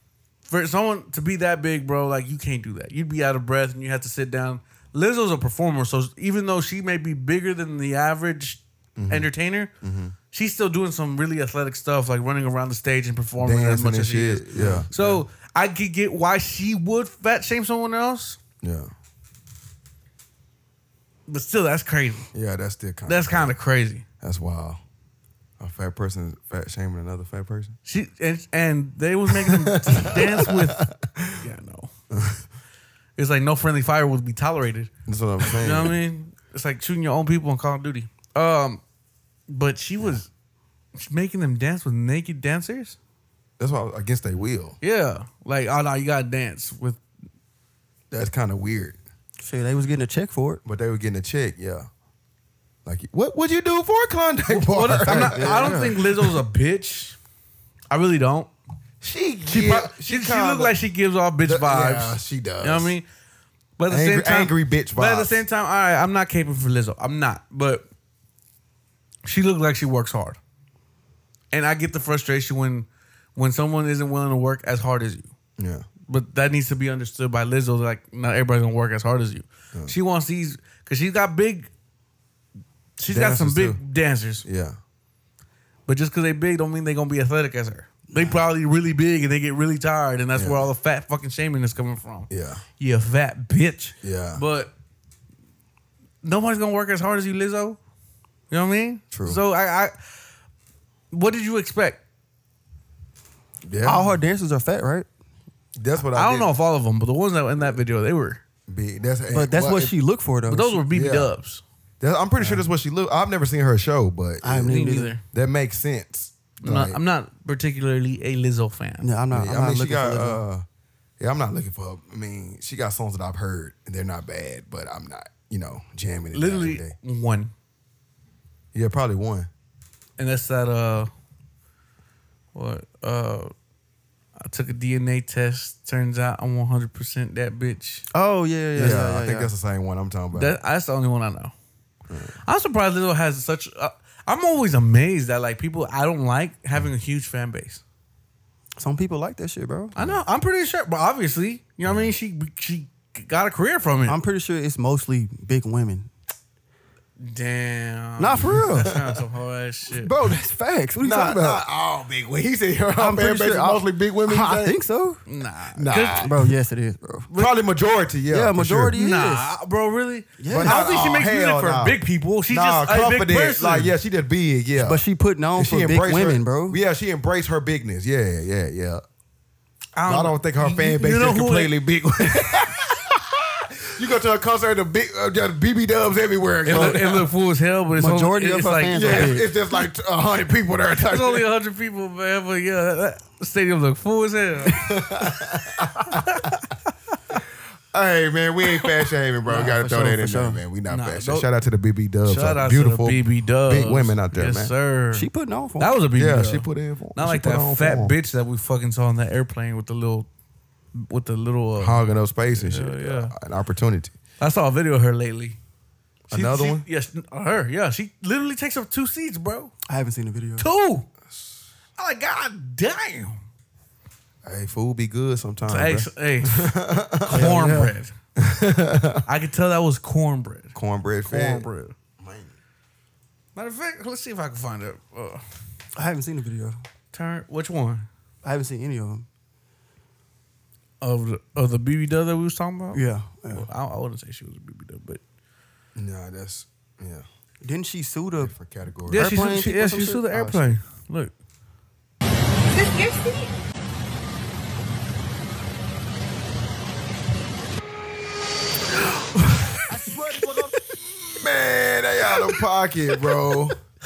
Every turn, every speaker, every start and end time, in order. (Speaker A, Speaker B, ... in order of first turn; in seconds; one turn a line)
Speaker A: 0.5-9.7
Speaker B: 9.0-9.3
Speaker B: 9.8-10.2
Speaker A: 10.3-18.4
Speaker B: 13.4-15.2
Speaker C: 14.6-14.9
Speaker B: 18.6-18.9
Speaker A: 21.3-22.3
Speaker B: 22.3-23.5
Speaker A: 23.1-24.1
Speaker B: 24.2-24.8
Speaker B: 25.6-27.8
Speaker A: 27.9-30.8
Speaker B: 29.3-31.4
Speaker A: 31.4-31.9
Speaker B: 32.1-32.4
Speaker A: 33.2-34.9
Speaker B: 35.1-36.0
Speaker A: 35.5-38.8
Speaker A: 39.5-40.3
Speaker A: 41.0-43.0
Speaker B: 43.6-44.8
Speaker A: 44.8-47.0
Speaker B: 48.1-49.0
Speaker C: 49.4-50.6
Speaker B: 50.6-51.9
Speaker B: 52.9-56.1
Speaker A: 54.5-57.2
Speaker C: 55.0-56.0
Speaker A: 57.9-58.5
Speaker B: 59.0-60.8
Speaker A: 59.5-63.1
Speaker B: 61.4-63.0
Speaker A: 63.8-67.9
Speaker B: 63.9-65.4
Speaker A: 69.2-70.4
Speaker A: 71.5-75.3
Speaker B: 75.6-75.9
Speaker A: 76.1-81.7
Speaker A: 83.0-84.5
Speaker B: 83.1-83.8
Speaker B: 84.4-84.8
Speaker A: 85.9-94.7
Speaker C: 88.1-88.4
Speaker B: 90.3-90.6
Speaker B: 92.3-92.6
Speaker B: 94.0-94.4
Speaker A: 96.2-97.8
Speaker A: 98.5-100.0
Speaker B: 99.1-99.4
Speaker A: 101.1-102.0
Speaker B: 103.6-104.1
Speaker C: 103.8-105.1
Speaker B: 105.8-106.5
Speaker A: 106.1-108.4
Speaker B: 108.7-109.9
Speaker C: 109.3-110.8
Speaker A: 110.5-111.6
Speaker B: 110.9-111.3
Speaker B: 112.0-117.0
Speaker C: 112.4-112.7
Speaker C: 114.4-115.2
Speaker A: 114.7-115.2
Speaker A: 116.6-119.1
Speaker C: 119.0-120.4
Speaker B: 119.3-120.6
Speaker B: 121.2-127.0
Speaker A: 126.3-127.5
Speaker B: 128.7-129.5
Speaker A: 130.2-131.1
Speaker A: 132.6-133.5
Speaker A: 134.4-138.1
Speaker C: 138.1-139.5
Speaker B: 138.8-140.6
Speaker A: 140.3-141.5
Speaker B: 142.1-142.4
Speaker A: 142.4-147.8
Speaker C: 148.8-150.0
Speaker A: 149.9-154.2
Speaker B: 151.8-152.1
Speaker C: 154.1-156.1
Speaker A: 157.2-160.2
Speaker C: 158.2-158.9
Speaker B: 158.5-158.8
Speaker C: 159.9-161.7
Speaker B: 161.0-164.8
Speaker C: 163.0-165.2
Speaker A: 165.3-166.3
Speaker B: 165.8-166.5
Speaker C: 166.2-167.3
Speaker A: 167.3-167.6
Speaker B: 167.3-168.9
Speaker C: 168.3-169.5
Speaker A: 168.9-173.9
Speaker C: 170.4-170.8
Speaker B: 170.5-175.0
Speaker C: 174.8-176.8
Speaker B: 175.6-179.0
Speaker A: 180.0-181.7
Speaker B: 180.1-187.3
Speaker A: 186.6-189.4
Speaker C: 186.7-187.0
Speaker C: 187.9-189.5
Speaker B: 188.9-191.4
Speaker A: 191.1-195.0
Speaker B: 194.7-196.3
Speaker B: 197.9-204.7
Speaker C: 199.4-200.6
Speaker A: 200.9-201.5
Speaker A: 202.2-210.3
Speaker C: 205.1-206.0
Speaker B: 206.2-208.1
Speaker A: 210.9-213.3
Speaker B: 211.8-214.2
Speaker A: 214.4-215.6
Speaker B: 216.3-216.8
Speaker A: 216.3-219.7
Speaker C: 219.9-220.7
Speaker A: 220.6-221.1
Speaker A: 222.0-223.4
Speaker B: 224.4-227.7
Speaker A: 225.7-226.7
Speaker C: 227.3-227.9
Speaker A: 227.3-228.1
Speaker B: 228.4-229.2
Speaker A: 229.3-232.0
Speaker B: 230.7-231.7
Speaker B: 232.2-232.5
Speaker A: 233.6-235.4
Speaker C: 236.0-236.8
Speaker A: 237.1-238.1
Speaker C: 238.4-239.3
Speaker A: 241.0-245.2
Speaker C: 242.9-243.7
Speaker B: 246.0-247.2
Speaker C: 247.6-248.5
Speaker B: 248.4-249.2
Speaker C: 249.1-250.7
Speaker A: 249.1-251.3
Speaker B: 261.1-263.8